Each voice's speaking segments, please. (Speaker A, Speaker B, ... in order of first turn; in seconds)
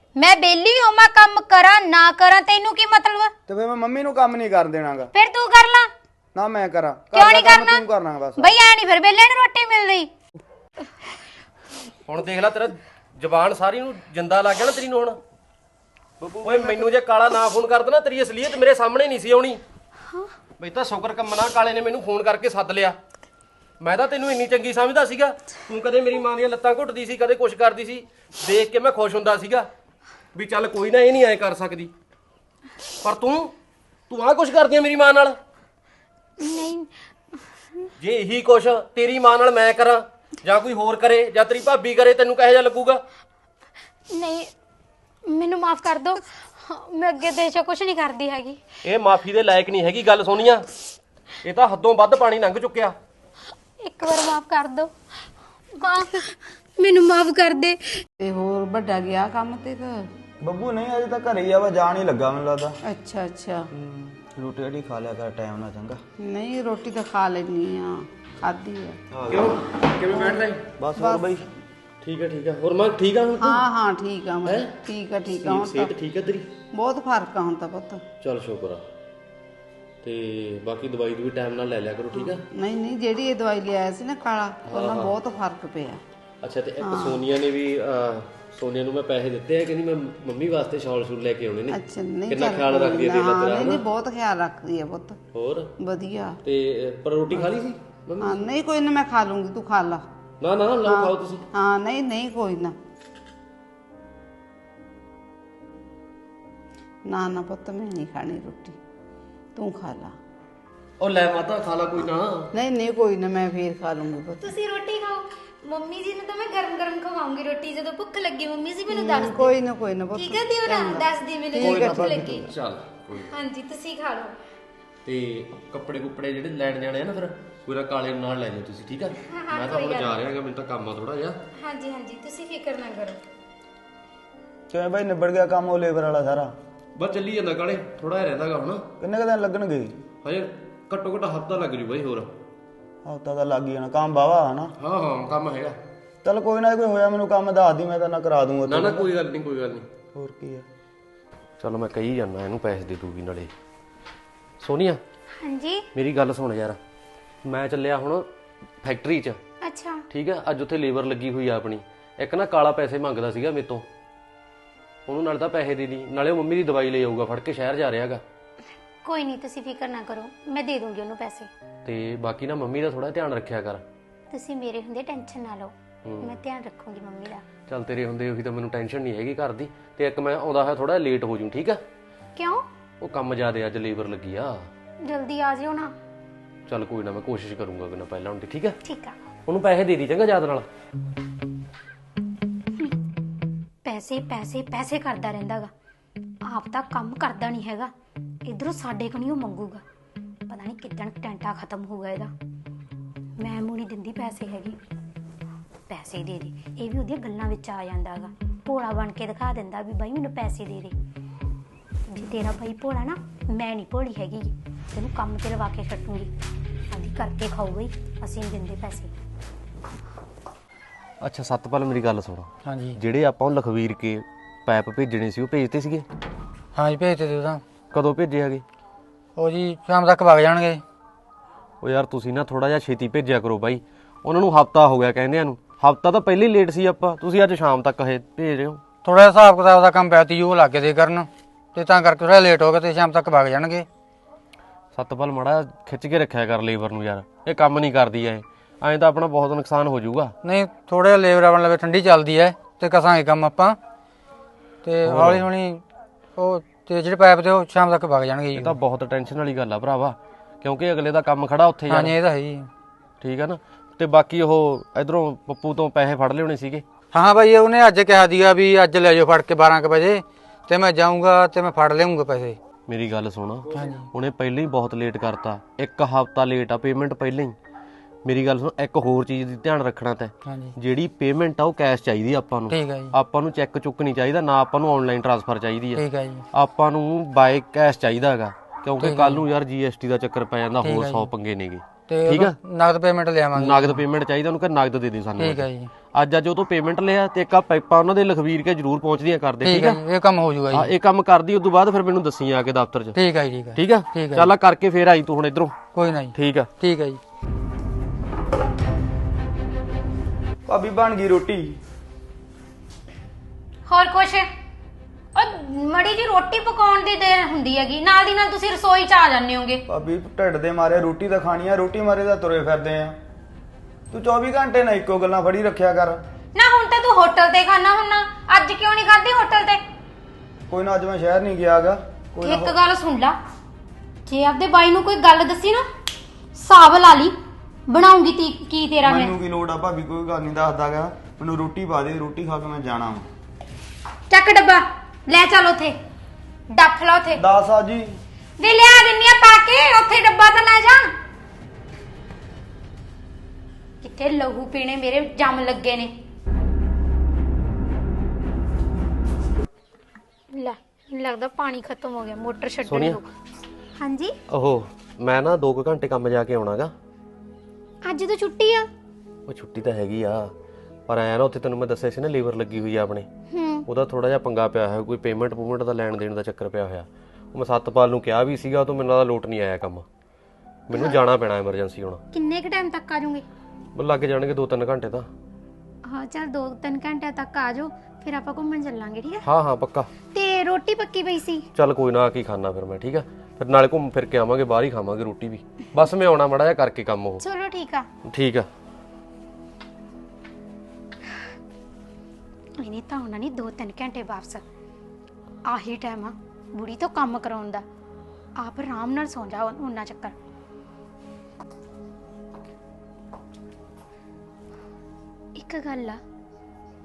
Speaker A: 0.2-3.3, 5.1-5.9, 7.1-7.8, 8.4-10.1, 36.4-36.9, 44.1-44.5, 45.3-48.6, 53.8-54.9, 55.7-58.0, 114.4-119.5, 120.1-122.5, 123.3-124.3, 129.3-130.2, 131.6-133.2, 155.4-155.8, 159.6-160.0, 169.0-171.5, 174.3-177.4, 182.3-182.6, 185.0-185.9, 188.8-189.1, 193.8-195.7, 196.5-197.9, 198.4-199.8, 200.5-202.3, 203.4-204.8, 205.9-210.9, 212.1-216.3, 216.9-219.1, 313.9-314.5, 315.3-319.8, 326.5-329.8, 332.4-333.4, 334.2-335.8, 336.5-337.3, 337.9-339.3, 344.3-345.9, 346.7-347.4, 348.6-351.1, 354.0-356.1, 360.5-363.3, 364.0-364.4, 368.0-368.9, 373.5-373.8, 380.9-381.2, 382.3-383.4, 386.0-389.5, 390.3-391.6, 397.4-398.1, 402.8-404.6, 405.7-407.8, 408.6-410.3, 415.6-416.2
Speaker B: 3.5-5.1, 6.3-8.5, 16.2-16.9, 60.4-62.8, 63.7-66.0, 69.1-69.6, 70.8-71.4, 121.6-122.5, 134.7-136.5, 139.0-139.9, 143.1-144.7, 146.2-149.1, 150.1-150.6, 310.7-311.8, 319.9-323.2, 324.1-326.2, 330.7-332.7, 339.0-343.2, 347.4-348.2
Speaker C: 12.1-15.2, 16.2-19.6, 20.6-22.9, 23.8-29.7, 30.3-31.9, 33.0-33.5, 34.1-35.4, 38.0-43.0, 48.8-50.6, 51.4-52.9, 69.3-70.7, 72.0-73.6, 74.5-74.7, 75.3-76.5, 78.2-78.8, 80.0-82.4, 84.6-85.1, 86.4-93.8, 95.3-95.7, 96.4-98.5, 100.4-101.4, 111.0-112.5, 122.5-123.3, 125.0-131.4, 136.9-138.8, 140.2-142.3, 144.8-145.8, 148.7-149.9, 151.6-153.5, 154.6-155.0, 155.9-156.8, 157.4-158.3, 158.8-159.4, 160.1-163.8, 165.1-168.2, 171.8-173.8, 176.0-176.3, 177.7-181.8, 183.0-184.7, 186.7-188.8, 189.4-190.7, 221.2-226.1, 227.9-228.6, 231.8-238.8, 244.9-250.3, 255.0-255.5, 258.5-262.1, 263.2-266.8, 272.9-277.5, 278.2-292.6, 293.5-300.0, 300.7-303.2, 303.8-306.7, 362.9-363.2, 364.5-366.9, 369.5-370.5, 371.1-373.3, 373.9-380.0, 380.9-382.2, 383.9-385.3, 389.4-390.1, 391.8-397.4, 398.2-398.6
Speaker D: 58.2-60.0, 62.9-63.7, 66.2-69.0, 70.2-70.4, 71.0-71.3, 73.4-75.9, 76.7-78.0, 82.2-86.0, 86.8-87.2, 91.7-95.2, 95.8-96.4, 98.2-100.0, 100.8-102.7, 107.1-108.8, 109.5-110.2, 112.5-114.5, 118.9-122.2
Speaker E: 222.6-223.0, 226.8-227.6, 229.4-230.8, 239.0-243.9, 250.4-253.8, 254.8-255.8, 256.4-258.8, 261.9-262.7, 267.1-272.6, 273.7-274.1, 280.4-280.7, 282.7-283.1, 285.9-286.4, 289.0-289.4, 290.8-291.3, 292.1-294.0, 295.4-295.9, 299.6-300.9, 303.1-304.5, 305.9-307.2